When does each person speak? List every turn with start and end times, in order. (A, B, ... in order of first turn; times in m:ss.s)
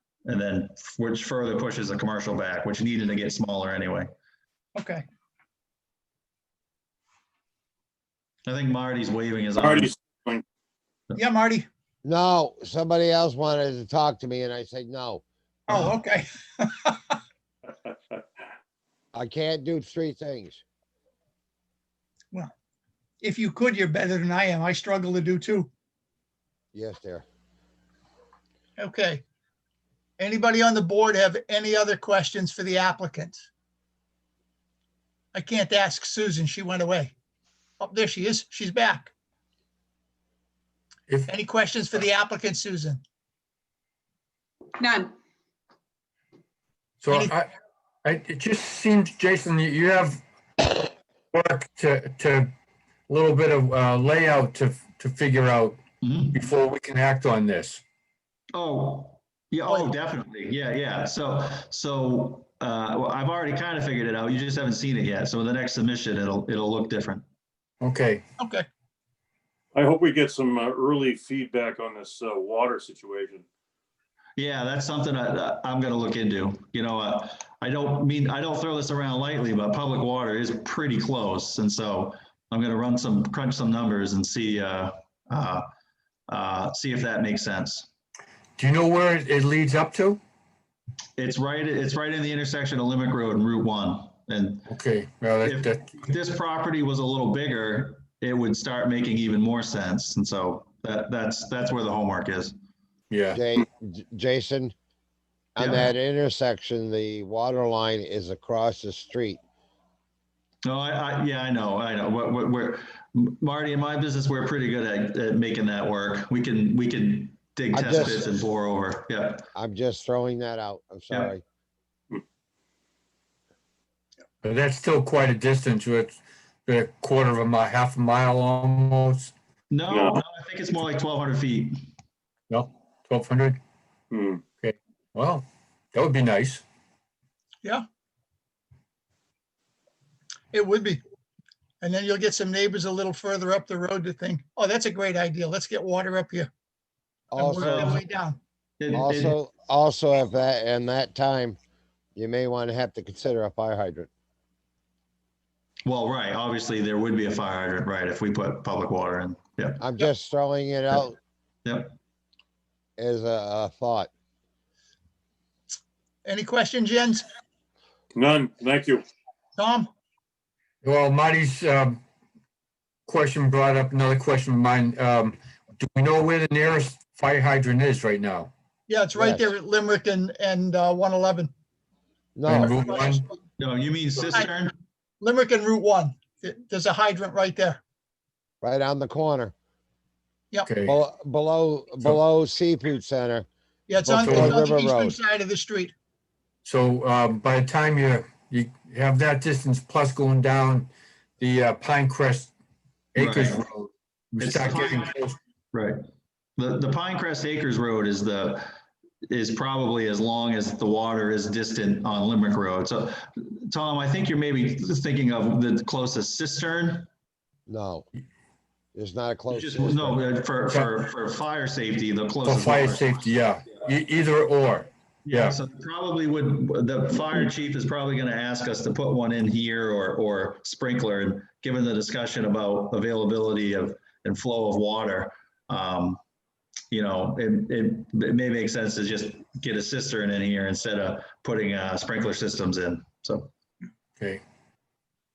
0:00.3-0:04.1 A
0:04.8-0:05.0 B
0:08.5-0:09.9 A
0:09.6-0:10.4 C
0:11.2-0:11.7 B
0:12.0-0:15.2 D
0:15.7-0:17.0 B
0:19.1-0:20.6 D
0:23.2-0:25.7 B
0:26.7-0:27.2 D
0:28.8-0:29.2 B
0:30.2-0:33.5 B
0:35.3-0:37.1 B
0:37.8-0:39.1 B
0:41.3-0:43.0 B
0:47.0-0:47.5 E
0:48.0-0:52.5 E
0:53.1-0:55.8 E
0:56.0-0:56.4 A
0:56.3-0:57.8 E
0:58.5-1:07.2 A
1:07.8-1:08.2 E
1:08.4-1:08.6 B
1:09.7-1:13.4 C
1:14.4-1:25.7 A
1:26.3-1:27.9 A
1:28.6-1:30.2 E
1:31.2-1:34.7 A
1:34.7-1:35.8 E
1:35.4-1:42.5 A
1:43.1-1:43.4 E
1:43.3-1:44.7 D
1:45.6-1:49.4 D
1:45.6-1:45.9 A
1:50.6-1:59.4 A
1:57.7-1:58.4 D
1:59.5-2:01.4 D
2:04.4-2:09.3 E
2:09.7-2:11.8 A
2:09.9-2:10.2 C
2:12.5-2:13.6 E
2:14.1-2:14.4 C
2:14.5-2:16.6 E
2:20.5-2:21.0 B
2:21.8-2:26.5 B
2:27.3-2:27.9 D
2:27.3-2:28.4 B
2:27.6-2:28.0 A
2:28.8-2:29.3 A
2:28.9-2:31.6 D
2:32.1-2:34.1 D
2:35.8-2:39.8 A
2:39.8-2:41.2 D
2:41.6-2:41.9 A
2:43.0-2:44.1 D
2:46.2-2:47.2 B
2:48.1-2:49.0 C
2:49.6-2:49.9 B
2:50.8-2:52.0 E
2:53.1-2:58.5 E
2:58.9-3:01.5 B
2:59.2-2:59.5 D
3:02.4-3:02.8 D
3:02.4-3:03.2 E
3:02.8-3:03.2 B
3:03.6-3:04.7 A
3:05.2-3:07.8 B
3:08.6-3:09.5 D
3:10.6-3:11.0 E
3:10.8-3:13.5 D
3:13.9-3:15.9 B
3:14.0-3:15.2 D
3:14.2-3:14.6 E
3:16.6-3:22.5 E
3:23.1-3:25.4 E
3:23.2-3:23.7 A
3:24.4-3:25.1 A
3:25.7-3:26.0 A
3:26.6-3:28.7 A
3:29.2-3:37.1 A
3:37.7-3:38.1 D
3:38.9-3:40.2 D
3:39.5-3:43.3 A
3:42.4-3:45.6 E
3:45.2-3:56.2 A
3:56.9-4:03.5 A